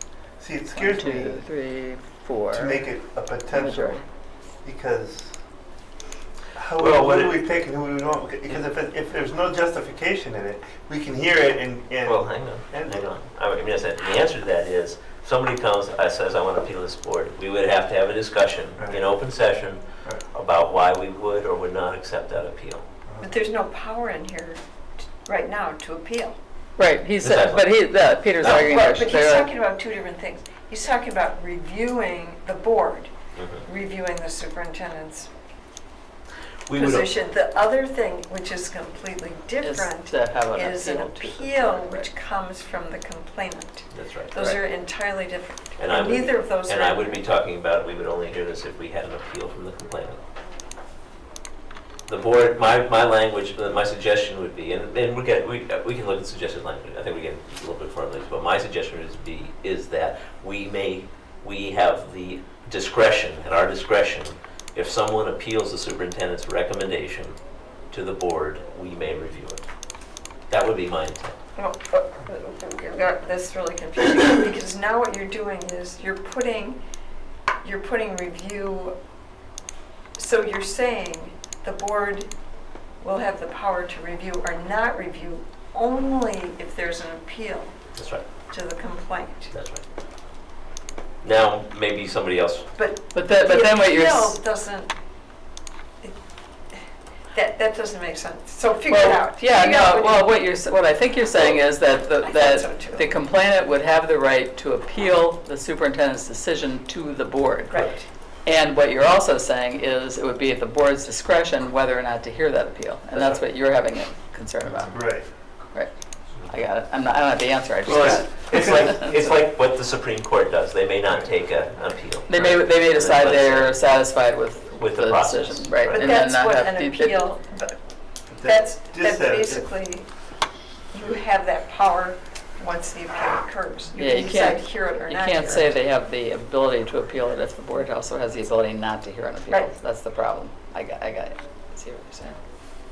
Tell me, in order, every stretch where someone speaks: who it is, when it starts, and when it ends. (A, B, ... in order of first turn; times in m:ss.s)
0:00.4-0:01.4 A
0:00.8-0:02.8 B
0:02.5-0:04.0 A
0:03.5-0:04.0 B
0:04.6-0:05.4 A
0:06.6-0:13.1 A
0:06.8-0:07.4 C
0:12.0-0:22.9 C
0:23.2-0:26.4 D
0:26.8-0:29.5 B
0:27.2-0:27.8 C
0:28.4-0:28.9 C
0:28.4-0:33.1 D
0:33.4-0:33.6 C
0:33.6-0:35.3 D
0:36.7-0:37.1 C
0:36.8-0:47.2 D
0:39.6-0:42.1 B
0:43.9-0:44.4 C
0:45.8-0:50.2 C
0:52.1-1:07.4 C
1:07.9-1:09.7 C
1:10.5-1:11.4 C
1:11.6-1:16.8 D
1:17.6-1:18.9 D
1:20.2-1:22.3 D
1:23.0-1:27.8 D
1:28.0-1:28.3 C
1:28.5-1:29.5 D
1:29.5-1:29.8 C
1:31.2-1:32.7 C
1:32.8-1:34.9 D
1:33.1-1:34.4 B
1:37.3-1:40.3 D
1:38.9-1:47.8 B
1:41.3-1:41.6 C
1:42.2-1:43.1 D
1:47.7-1:48.1 D
1:48.4-1:55.0 B
1:54.9-1:55.3 A
1:56.5-1:59.2 B
1:57.9-2:03.8 C
2:02.3-2:07.2 B
2:04.8-2:06.2 C
2:05.9-2:07.8 D
2:08.3-2:09.7 A
2:08.5-2:10.1 D
2:10.9-2:15.7 D
2:13.9-2:22.4 B